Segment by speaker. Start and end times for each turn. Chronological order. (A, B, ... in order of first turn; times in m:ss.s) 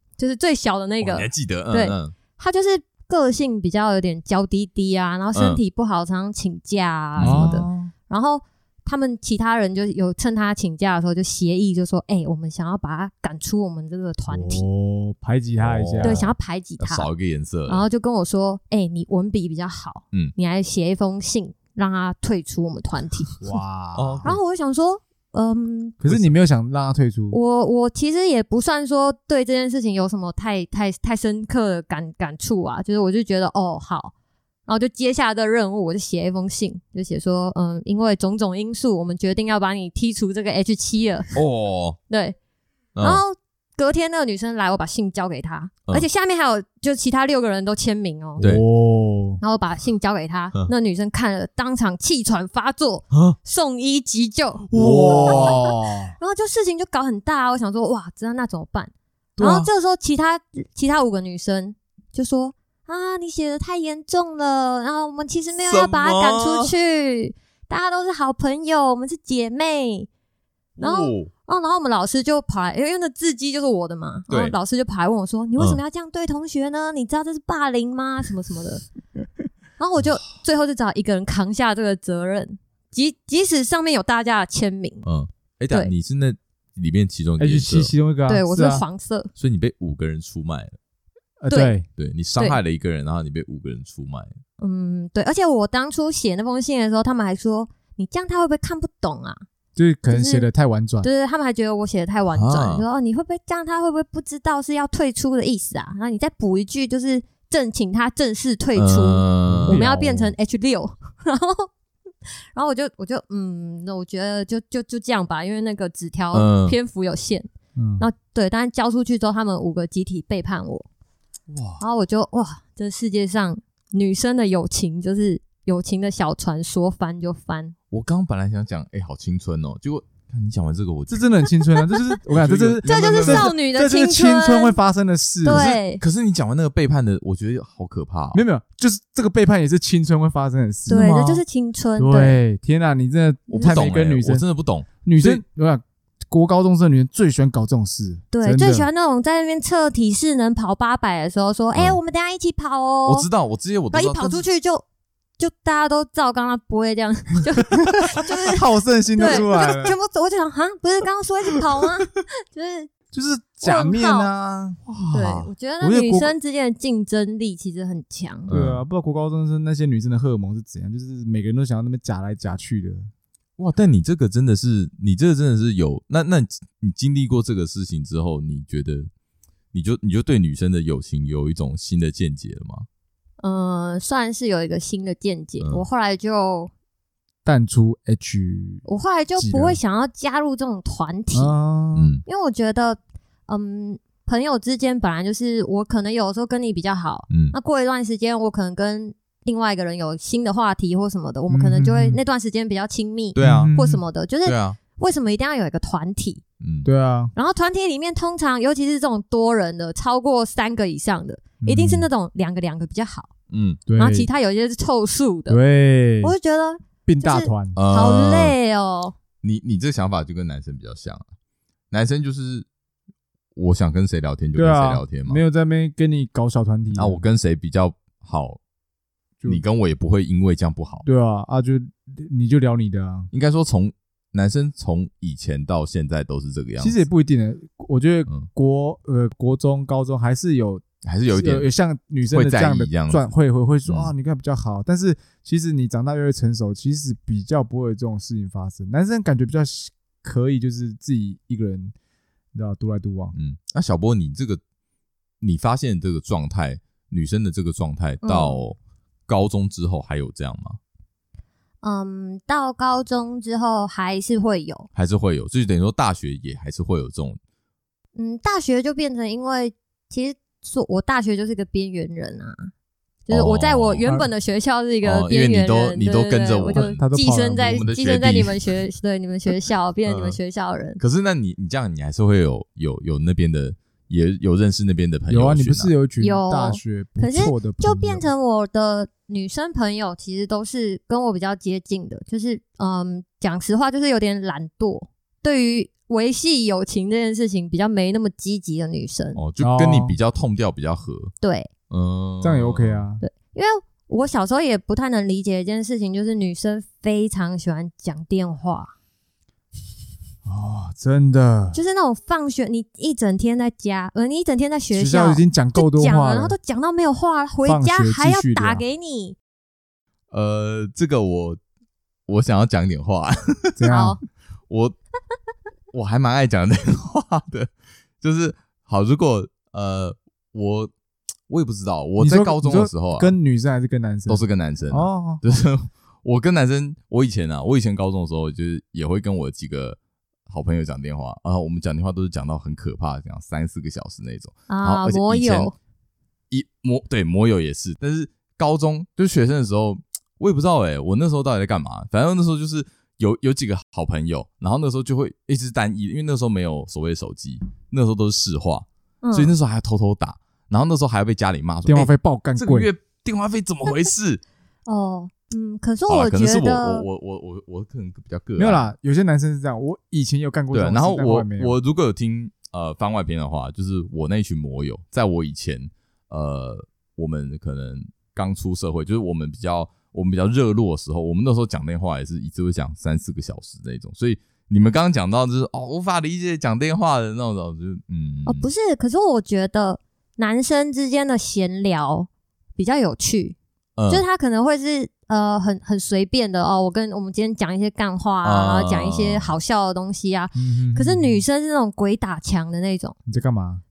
0:00.2-0:14.7 A
0:01.0-0:02.1 B
0:05.3-0:05.6 B
0:07.2-0:07.7 B
0:07.2-0:07.9 C
0:14.3-0:16.3 C
0:15.6-0:17.8 B
0:16.0-0:17.1 A
0:17.7-0:23.4 A
0:23.4-0:24.4 C
0:24.0-0:24.3 B
0:24.2-0:26.0 A
0:26.0-0:27.4 C
0:26.0-0:26.3 B
0:27.3-0:34.1 A
0:34.6-0:41.3 A
0:41.3-0:42.0 B
0:42.1-0:42.4 A
0:43.0-0:43.2 B
0:43.0-0:48.5 A
0:48.4-0:49.4 C
0:49.4-1:10.1 A
0:53.1-0:53.4 B
0:54.7-0:55.5 B
0:54.7-0:56.1 C
0:59.4-0:59.7 B
1:05.6-1:06.7 B
1:10.8-1:11.3 B
1:10.8-1:18.8 A
1:14.3-1:14.6 B
1:19.8-1:25.0 A
1:25.0-1:27.9 B
1:27.4-1:28.8 C
1:28.3-1:29.3 A
1:29.4-1:30.8 B
1:31.4-1:31.8 C
1:31.5-1:31.8 A
1:32.0-1:34.3 B
1:34.6-1:39.4 A
1:39.8-1:41.1 C
1:40.1-1:40.5 A
1:41.0-1:51.7 A
1:42.3-1:42.8 B
1:48.7-1:49.8 B
1:49.5-1:50.3 C
1:52.5-2:00.8 A
1:56.3-1:56.8 B
1:57.8-1:58.0 C
2:01.5-2:01.8 B
2:01.8-2:07.7 A
2:07.9-2:11.5 B
2:11.1-2:15.7 C
2:12.3-2:13.5 B
2:12.8-2:14.8 A
2:15.4-2:16.0 A
2:15.4-2:18.4 B
2:18.3-2:21.4 C
2:20.9-2:22.4 A
2:22.0-2:24.4 C
2:23.5-2:25.4 B
2:25.0-2:28.9 C
2:28.3-2:33.3 A
2:33.0-2:34.4 B
2:33.9-2:34.8 A
2:35.4-2:38.6 A
2:38.4-2:39.9 C
2:39.2-2:42.9 A
2:43.1-2:44.9 C
2:43.6-2:44.3 A
2:44.9-2:45.4 B
2:45.1-2:48.5 A
2:45.8-2:46.3 C
2:48.5-2:48.8 B
2:48.5-2:53.1 C
2:53.6-2:59.1 B
2:59.7-3:02.9 B
3:03.4-3:06.7 A
3:05.6-3:05.8 B
3:07.4-3:08.8 C
3:08.8-3:11.5 A
3:09.4-3:09.8 C
3:11.3-3:12.1 C
3:11.9-3:12.2 B
3:12.2-3:26.4 A
3:17.3-3:17.5 B
3:21.5-3:22.2 C
3:23.3-3:23.7 B
3:23.4-3:24.0 C
3:24.4-3:24.8 B
3:26.6-3:26.9 B
3:26.8-3:27.3 C
3:27.3-3:33.3 A
3:31.6-3:32.1 C
3:33.5-3:33.8 B
3:33.9-3:34.3 C
3:34.0-3:35.6 A
3:35.5-3:36.3 C
3:36.2-3:39.2 A
3:37.0-3:37.8 C
3:37.7-3:38.5 B
3:39.4-3:41.2 B
3:41.9-3:42.6 B
3:43.5-3:45.4 B
3:44.5-3:47.2 C
3:46.9-3:48.6 B
3:49.4-3:51.0 B
3:51.0-3:53.3 C
3:53.3-3:57.0 B
3:56.8-4:11.9 C
4:01.0-4:01.7 B
4:02.3-4:03.2 B
4:03.9-4:04.1 B
4:12.5-4:13.3 C
4:13.3-4:14.6 B
4:15.4-4:18.8 B
4:18.2-4:18.6 A
4:19.3-4:20.8 B
4:21.8-4:24.9 A
4:24.9-4:27.4 B
4:28.1-4:32.7 A
4:33.3-4:41.0 A
4:33.3-4:34.0 B
4:35.0-4:37.0 B
4:36.7-4:37.9 C
4:37.7-4:38.8 B
4:40.0-4:40.4 B
4:41.0-4:45.9 B
4:45.3-4:48.3 C
4:46.2-4:59.4 A
4:59.4-5:01.3 B
4:59.6-5:00.2 C
5:01.4-5:01.7 A
5:01.9-5:03.0 B
5:02.4-5:03.2 C
5:03.2-5:08.9 A
5:10.4-5:11.8 C
5:11.7-5:19.4 A
5:14.9-5:16.6 C
5:17.6-5:18.8 C
5:20.3-5:21.6 B
5:22.3-5:23.9 B
5:23.8-5:24.2 C
5:23.9-5:24.2 A
5:24.7-5:24.9 B
5:25.9-5:27.7 B
5:28.2-5:30.9 B
5:31.5-5:33.3 B
5:32.2-5:35.4 C
5:34.3-5:40.0 B
5:40.5-5:45.7 B
5:44.7-5:45.7 A
5:46.5-6:04.4 B
5:59.2-5:59.5 A
6:01.8-6:02.9 C
6:04.9-6:07.0 A
6:06.1-6:08.9 B
6:08.6-6:11.7 C
6:10.7-6:28.7 B
6:28.4-6:33.6 A
6:34.0-6:34.2 B
6:34.1-6:43.1 A
6:38.4-6:39.6 B
6:40.6-6:41.4 C
6:43.2-6:43.8 C